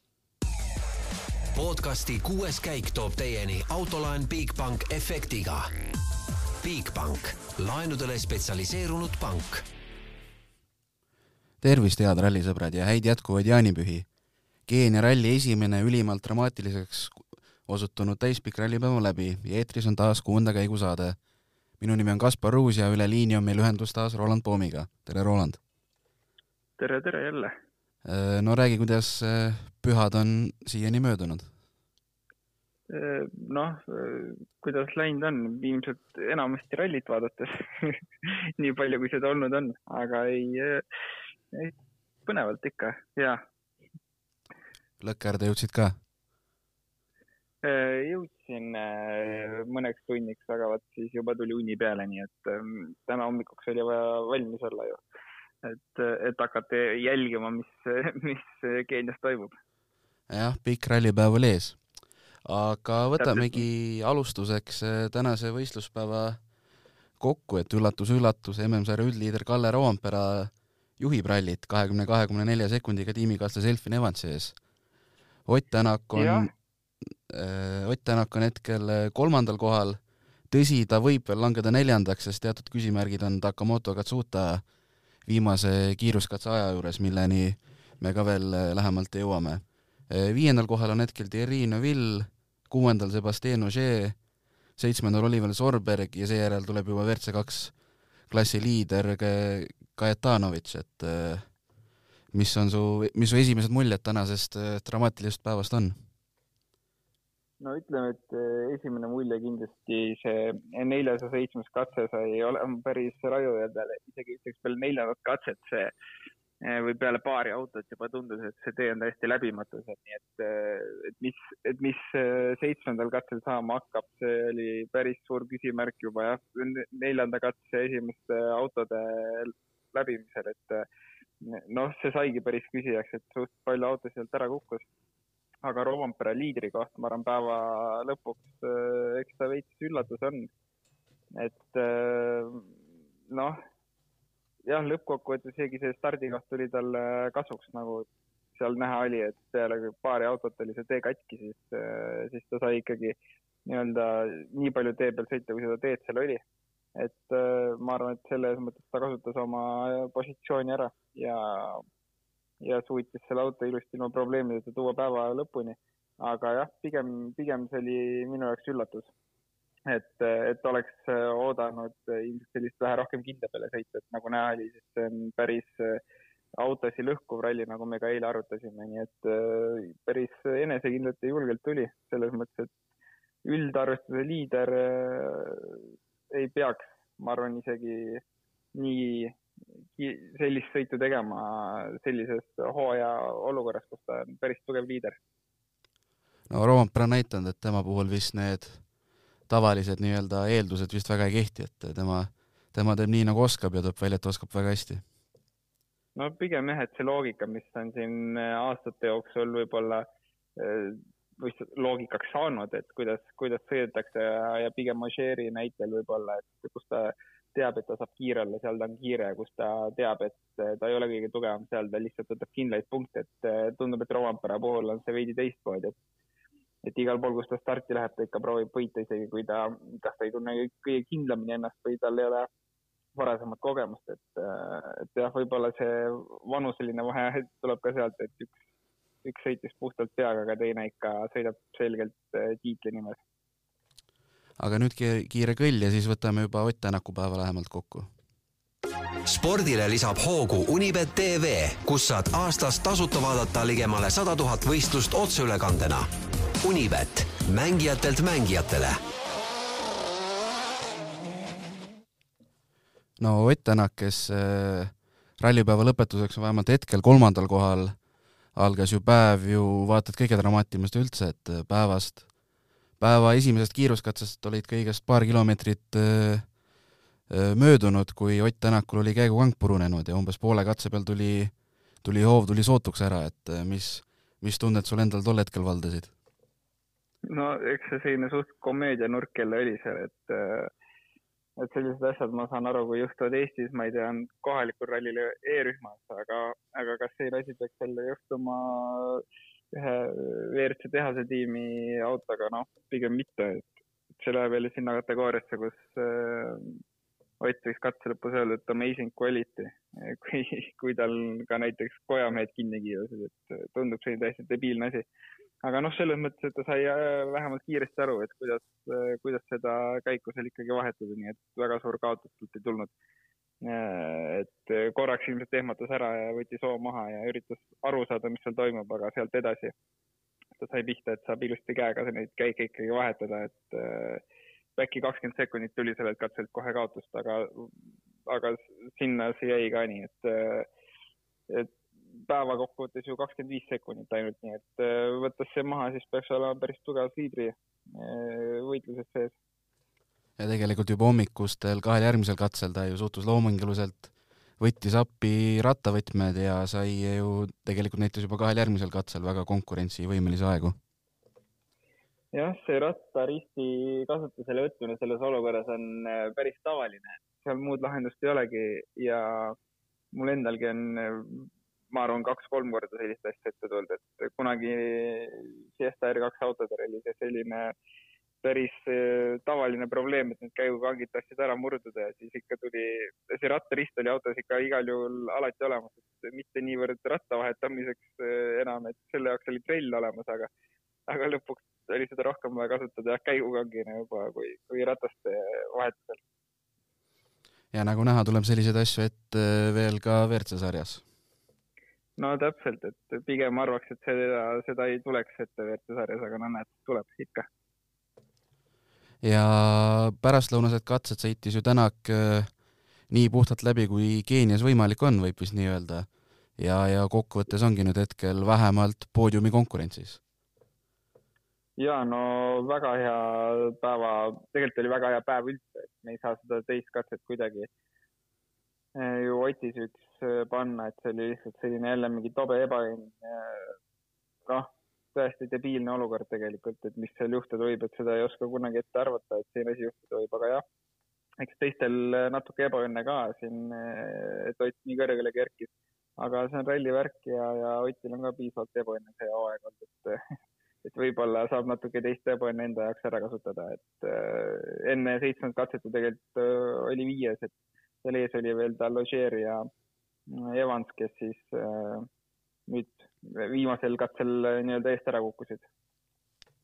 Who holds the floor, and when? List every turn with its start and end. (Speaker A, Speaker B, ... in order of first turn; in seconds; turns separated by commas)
Speaker A: 1.5-5.7, Speaker A: 6.6-9.6, Speaker B: 11.6-14.1, Speaker B: 14.7-21.2, Speaker B: 21.8-25.6, Speaker C: 26.8-27.5, Speaker B: 28.0-31.5, Speaker C: 32.9-40.8, Speaker C: 42.2-43.4, Speaker B: 45.0-45.9, Speaker C: 47.6-55.0, Speaker C: 55.6-59.6, Speaker B: 60.3-61.8, Speaker B: 62.5-66.4, Speaker C: 63.2-63.6, Speaker B: 67.2-74.6, Speaker B: 75.5-76.5, Speaker C: 76.2-76.5, Speaker B: 77.3-80.0, Speaker B: 80.5-84.6, Speaker B: 85.3-94.2, Speaker B: 94.8-97.7, Speaker B: 98.3-101.5, Speaker B: 102.3-106.0, Speaker C: 107.6-115.9, Speaker C: 116.6-130.8, Speaker C: 131.4-134.8, Speaker C: 135.6-140.5, Speaker C: 141.3-142.8, Speaker C: 143.3-143.6, Speaker C: 144.7-156.4, Speaker C: 157.0-161.8, Speaker C: 162.6-169.1, Speaker C: 169.9-176.0, Speaker C: 176.6-182.7, Speaker C: 183.4-188.2, Speaker C: 188.8-189.4, Speaker C: 189.9-195.2, Speaker B: 196.5-198.8, Speaker B: 199.5-205.0, Speaker C: 206.2-225.9, Speaker C: 226.8-232.5, Speaker C: 233.2-238.6, Speaker C: 239.2-243.2, Speaker B: 244.6-248.1, Speaker A: 249.3-256.1, Speaker A: 256.6-259.0, Speaker B: 263.2-267.9, Speaker B: 268.6-272.2, Speaker B: 273.0-276.5, Speaker B: 277.3-281.5, Speaker B: 282.0-286.1, Speaker C: 287.3-290.7, Speaker C: 291.6-306.8, Speaker C: 307.4-315.1, Speaker C: 315.6-322.9, Speaker C: 323.6-329.7, Speaker C: 330.6-334.2, Speaker C: 334.8-337.7, Speaker C: 338.3-340.7, Speaker C: 341.5-349.4, Speaker B: 350.4-360.8, Speaker C: 362.3-369.6, Speaker C: 370.1-377.7, Speaker C: 378.4-390.5, Speaker C: 391.1-396.2, Speaker B: 397.7-401.0, Speaker C: 402.2-407.5, Speaker B: 409.2-412.5, Speaker B: 413.1-416.1, Speaker B: 416.6-420.2, Speaker C: 421.8-427.7, Speaker C: 428.9-433.8, Speaker C: 434.5-440.6, Speaker C: 441.4-450.2, Speaker C: 450.8-459.7, Speaker C: 460.3-462.1, Speaker C: 462.7-465.7